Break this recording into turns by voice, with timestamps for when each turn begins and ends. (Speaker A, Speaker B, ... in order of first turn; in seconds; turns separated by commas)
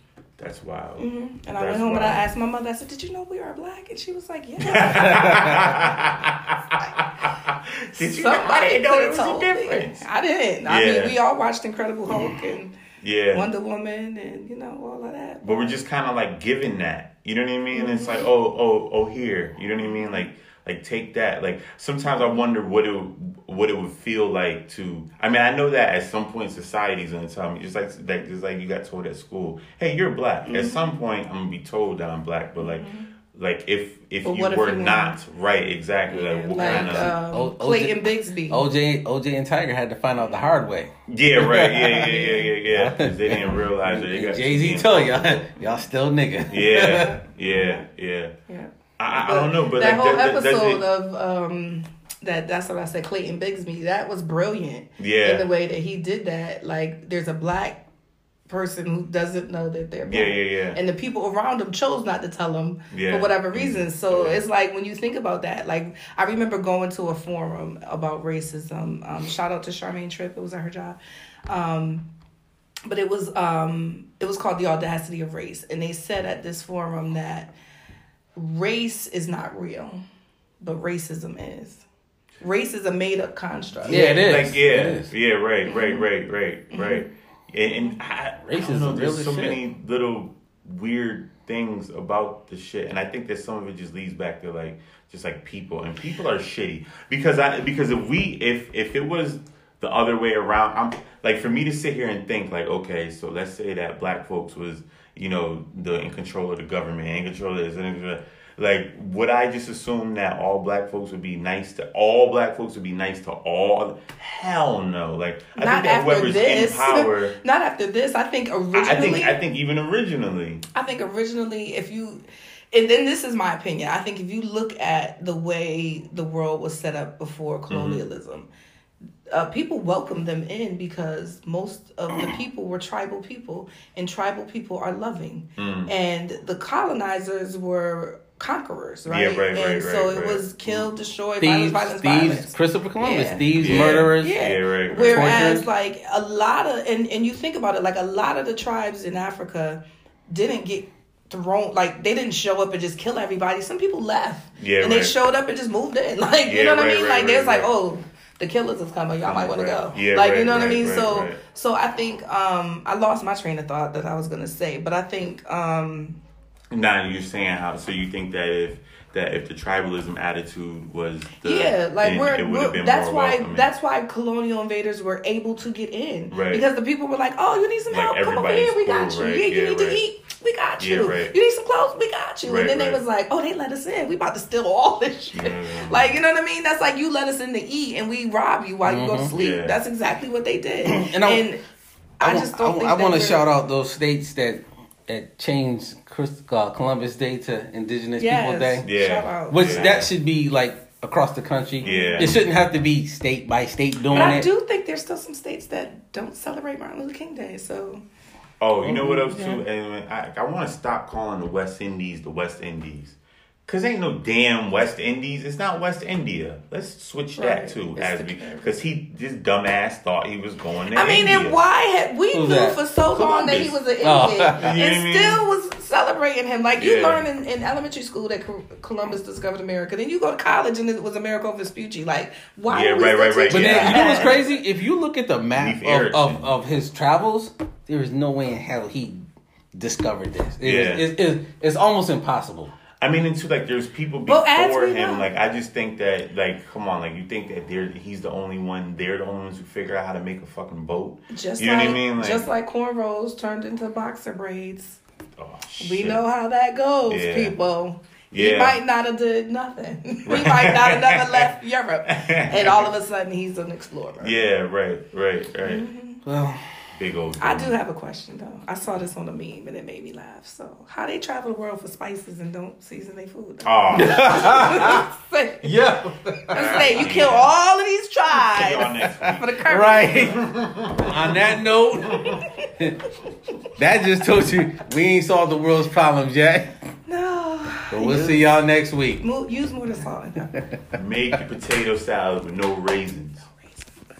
Speaker A: 0.4-2.2, Speaker B: 1.0-5.7, Speaker A: 4.6-10.1, Speaker C: 4.9-5.6, Speaker B: 7.9-12.7, Speaker A: 10.6-11.2, Speaker A: 12.1-12.4, Speaker A: 13.0-13.5, Speaker B: 13.3-15.8, Speaker A: 15.4-37.1, Speaker B: 17.7-18.3, Speaker B: 19.8-20.3, Speaker B: 30.4-30.8, Speaker B: 32.6-33.1, Speaker B: 34.2-35.2, Speaker B: 36.1-38.6, Speaker C: 36.5-47.2, Speaker B: 40.2-40.6, Speaker A: 41.1-45.4, Speaker A: 46.5-48.3, Speaker B: 46.8-47.8, Speaker B: 48.5-57.8, Speaker A: 49.0-50.9, Speaker A: 55.0-55.5, Speaker B: 58.5-72.0, Speaker A: 60.0-60.8, Speaker A: 62.9-64.4, Speaker B: 72.8-77.5, Speaker B: 78.3-80.0, Speaker B: 80.6-81.8, Speaker B: 82.4-84.2, Speaker A: 83.8-117.3, Speaker C: 83.9-85.1, Speaker B: 85.7-86.1, Speaker B: 86.7-87.1, Speaker C: 88.4-89.6, Speaker B: 115.5-119.4, Speaker A: 118.7-120.6, Speaker B: 120.7-128.5, Speaker A: 127.7-128.0, Speaker B: 129.3-166.2, Speaker A: 135.6-135.9, Speaker A: 139.1-140.9, Speaker C: 141.4-144.3, Speaker A: 143.6-145.5, Speaker C: 145.1-145.7, Speaker A: 154.6-155.1, Speaker A: 156.4-157.7, Speaker A: 159.2-161.4, Speaker A: 166.7-173.7, Speaker B: 171.4-191.6, Speaker A: 176.3-176.6, Speaker A: 177.9-180.0, Speaker A: 180.8-181.3, Speaker A: 182.4-183.0, Speaker A: 185.3-186.2, Speaker C: 188.8-189.3, Speaker A: 189.3-189.8, Speaker C: 190.8-191.5, Speaker B: 192.2-193.5, Speaker C: 192.2-198.9, Speaker B: 198.2-200.0, Speaker A: 198.8-200.1, Speaker C: 199.5-204.5, Speaker A: 201.8-202.4, Speaker B: 201.8-202.4, Speaker A: 204.1-204.4, Speaker B: 204.1-208.0, Speaker A: 208.6-221.6, Speaker C: 208.8-209.6, Speaker B: 217.4-218.8, Speaker B: 220.9-234.6, Speaker C: 222.3-222.8, Speaker A: 223.1-223.8, Speaker C: 224.0-224.8, Speaker A: 224.6-225.4, Speaker A: 226.8-227.2, Speaker A: 232.7-234.4, Speaker C: 233.5-239.2, Speaker A: 235.5-236.5, Speaker C: 239.7-242.7, Speaker A: 240.6-241.1, Speaker A: 243.0-252.5, Speaker B: 244.2-245.3, Speaker B: 251.3-255.0, Speaker A: 255.4-256.2, Speaker B: 255.8-264.3, Speaker A: 257.1-257.5, Speaker A: 258.3-258.8, Speaker A: 260.2-261.5, Speaker A: 262.1-262.9, Speaker A: 264.2-265.8, Speaker B: 265.6-266.2, Speaker C: 266.2-266.6, Speaker A: 267.0-267.8, Speaker B: 267.4-275.9, Speaker A: 273.6-274.9, Speaker C: 273.9-275.0, Speaker C: 275.6-276.9, Speaker B: 276.5-280.4, Speaker A: 276.5-277.6, Speaker A: 278.3-281.4, Speaker C: 279.0-280.4, Speaker C: 281.0-283.0, Speaker B: 282.1-282.4, Speaker A: 282.1-282.4, Speaker C: 283.8-286.7, Speaker B: 287.1-288.5, Speaker C: 287.9-289.2, Speaker B: 289.2-290.5, Speaker A: 290.9-293.5